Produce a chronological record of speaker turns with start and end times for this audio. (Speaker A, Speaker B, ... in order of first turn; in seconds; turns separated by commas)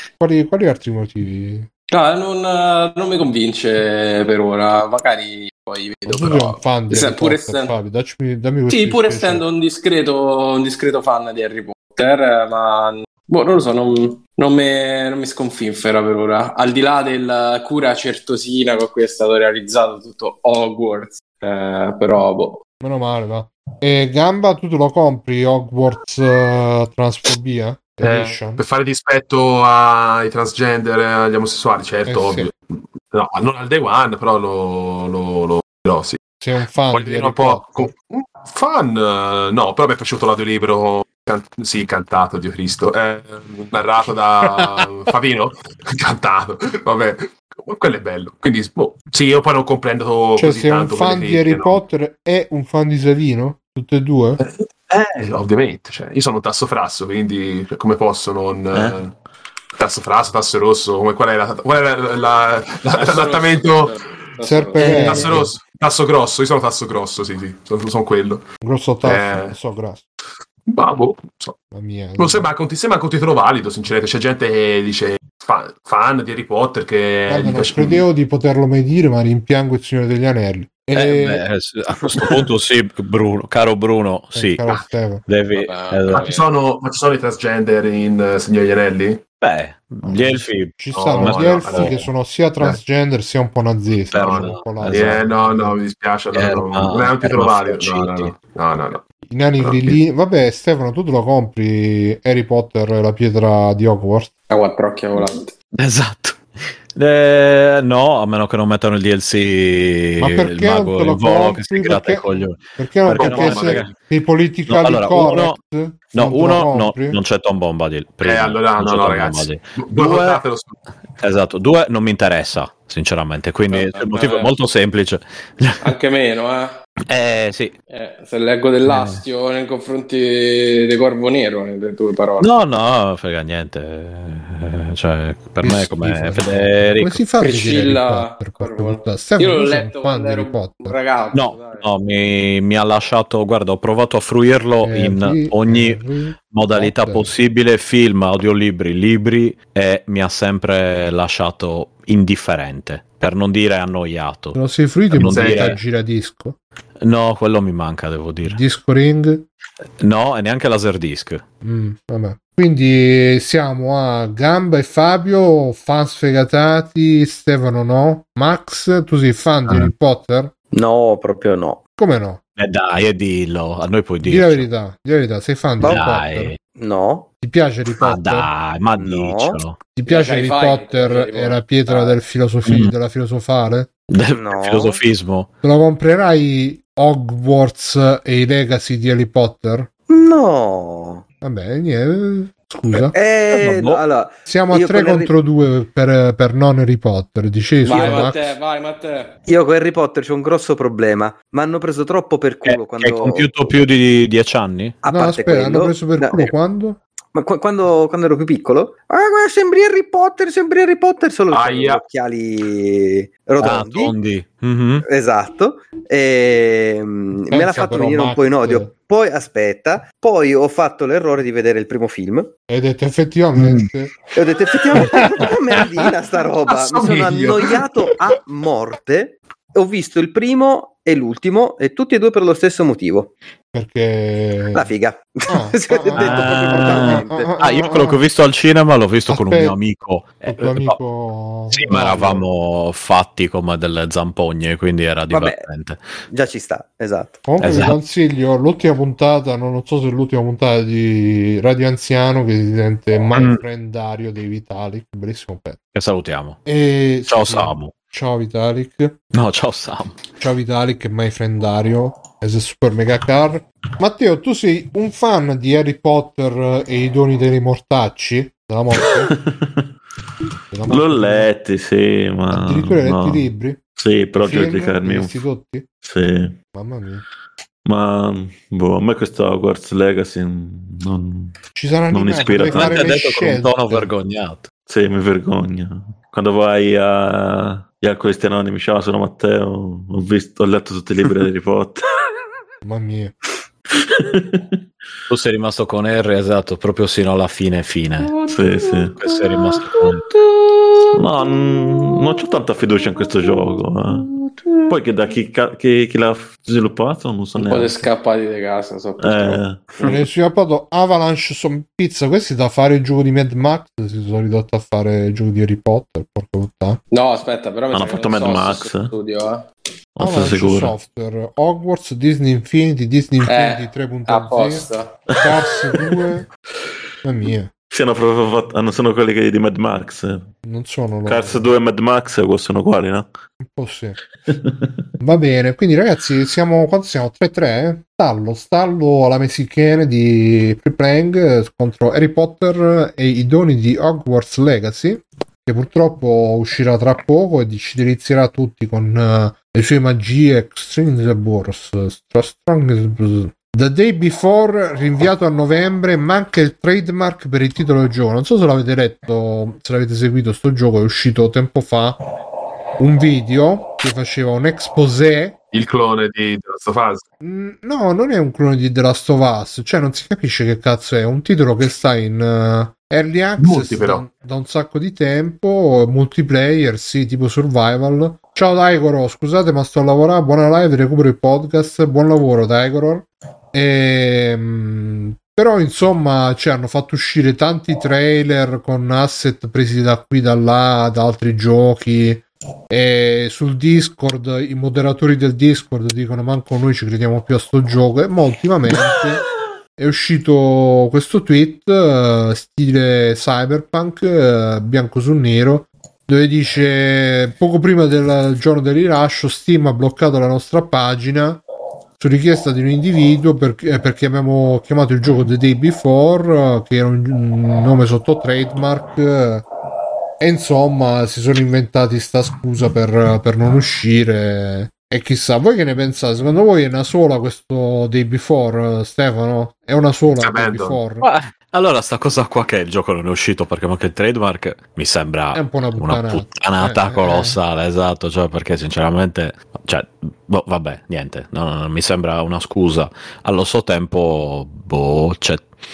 Speaker A: 0.2-1.7, Speaker B: 1.9-7.8, Speaker A: 6.1-9.4, Speaker B: 8.7-22.6, Speaker A: 22.8-28.6, Speaker C: 28.0-36.2, Speaker A: 32.1-32.5, Speaker A: 36.4-37.9, Speaker C: 36.9-51.8, Speaker A: 44.5-44.8, Speaker A: 50.4-54.4, Speaker C: 54.4-59.1, Speaker D: 58.7-59.0, Speaker C: 59.8-63.9, Speaker B: 62.9-65.3, Speaker A: 64.4-65.5, Speaker C: 64.8-68.4, Speaker E: 64.8-65.4, Speaker A: 68.6-70.0, Speaker C: 69.0-69.6, Speaker C: 70.7-71.6, Speaker A: 71.7-72.5, Speaker C: 72.2-78.0, Speaker A: 77.3-81.4, Speaker E: 80.9-84.6, Speaker A: 84.3-85.2, Speaker E: 85.3-86.3, Speaker B: 85.5-86.5, Speaker C: 86.1-89.2, Speaker E: 89.4-92.1, Speaker A: 90.0-95.8, Speaker C: 90.9-92.0, Speaker C: 94.1-99.0, Speaker E: 94.1-95.3, Speaker E: 96.3-98.3, Speaker A: 99.3-104.3, Speaker C: 99.6-100.0, Speaker B: 104.5-105.5, Speaker E: 105.8-106.4, Speaker E: 107.0-113.9, Speaker A: 110.2-117.2, Speaker C: 113.1-114.0, Speaker E: 114.7-115.6, Speaker E: 116.1-120.4, Speaker C: 118.2-120.8, Speaker E: 121.2-126.0, Speaker B: 123.7-124.5, Speaker B: 125.8-126.8, Speaker E: 127.1-127.7, Speaker B: 127.9-132.5, Speaker E: 128.8-129.2, Speaker E: 132.4-137.2, Speaker A: 135.6-141.0, Speaker B: 137.4-141.9, Speaker E: 141.3-146.0, Speaker A: 144.8-147.3, Speaker E: 146.5-154.6, Speaker A: 154.6-156.6, Speaker E: 155.1-155.8, Speaker C: 155.2-155.8, Speaker E: 157.0-158.6, Speaker A: 158.4-159.4, Speaker E: 160.0-161.4, Speaker A: 161.6-170.5, Speaker E: 169.7-169.9, Speaker F: 170.7-171.8, Speaker A: 172.0-172.4, Speaker E: 172.6-174.7, Speaker A: 174.2-176.5, Speaker F: 175.8-176.1, Speaker E: 175.8-176.6, Speaker F: 176.8-177.3, Speaker A: 177.4-178.5, Speaker E: 178.0-179.8, Speaker F: 179.0-179.6, Speaker A: 180.0-183.9, Speaker B: 180.1-182.2, Speaker E: 182.7-182.9, Speaker E: 184.1-185.5, Speaker F: 184.3-185.0, Speaker A: 185.6-189.9, Speaker F: 190.1-191.2, Speaker A: 191.4-193.1, Speaker F: 192.9-195.3, Speaker E: 193.5-194.0, Speaker A: 194.5-198.6, Speaker B: 197.8-199.3, Speaker F: 198.0-198.2, Speaker F: 199.5-203.5, Speaker E: 202.7-205.0, Speaker F: 205.0-206.5, Speaker A: 205.1-207.0, Speaker F: 207.3-214.1, Speaker C: 211.5-212.0, Speaker E: 213.6-215.1, Speaker F: 215.1-222.5, Speaker A: 217.5-218.9, Speaker A: 222.7-224.1, Speaker F: 224.4-233.3, Speaker A: 225.0-225.4, Speaker C: 226.7-227.8, Speaker A: 233.7-234.9, Speaker F: 234.7-237.6, Speaker A: 235.5-238.2, Speaker E: 236.2-241.0, Speaker A: 239.3-239.8, Speaker A: 240.4-242.5, Speaker E: 241.7-246.0, Speaker F: 245.3-245.6, Speaker F: 246.3-247.4, Speaker A: 247.5-255.8, Speaker E: 247.6-248.0, Speaker E: 253.3-253.6, Speaker E: 255.9-256.6, Speaker A: 256.7-259.2, Speaker E: 257.3-257.9, Speaker E: 259.3-260.2, Speaker A: 260.4-269.3, Speaker D: 269.0-269.9, Speaker A: 270.7-271.5, Speaker D: 270.9-275.4, Speaker A: 272.5-273.8, Speaker A: 274.4-275.9, Speaker D: 276.0-276.6, Speaker A: 276.8-277.2, Speaker D: 277.9-281.6, Speaker A: 281.8-284.1, Speaker D: 282.1-283.2, Speaker E: 282.7-284.7, Speaker D: 284.9-292.1, Speaker A: 292.8-293.3, Speaker D: 293.9-294.8, Speaker E: 295.3-298.4, Speaker D: 298.4-299.3, Speaker E: 299.2-300.2, Speaker D: 301.1-308.1, Speaker B: 307.6-310.2, Speaker D: 309.2-309.9, Speaker A: 310.0-317.0, Speaker B: 317.1-319.7, Speaker D: 317.9-319.1, Speaker D: 320.2-320.9, Speaker A: 320.2-324.9, Speaker B: 323.5-325.2, Speaker D: 325.3-326.1, Speaker A: 325.4-326.5, Speaker A: 327.2-327.7, Speaker D: 327.9-330.5, Speaker A: 330.6-331.7, Speaker D: 331.2-333.3, Speaker A: 333.6-334.2, Speaker D: 334.5-335.1, Speaker A: 335.2-362.2, Speaker A: 363.0-365.6, Speaker C: 365.7-367.2, Speaker A: 367.4-399.4, Speaker C: 373.6-374.2, Speaker A: 400.0-411.6, Speaker A: 412.2-419.6, Speaker A: 420.4-431.3, Speaker C: 430.4-431.0, Speaker E: 431.2-445.7, Speaker A: 435.5-437.6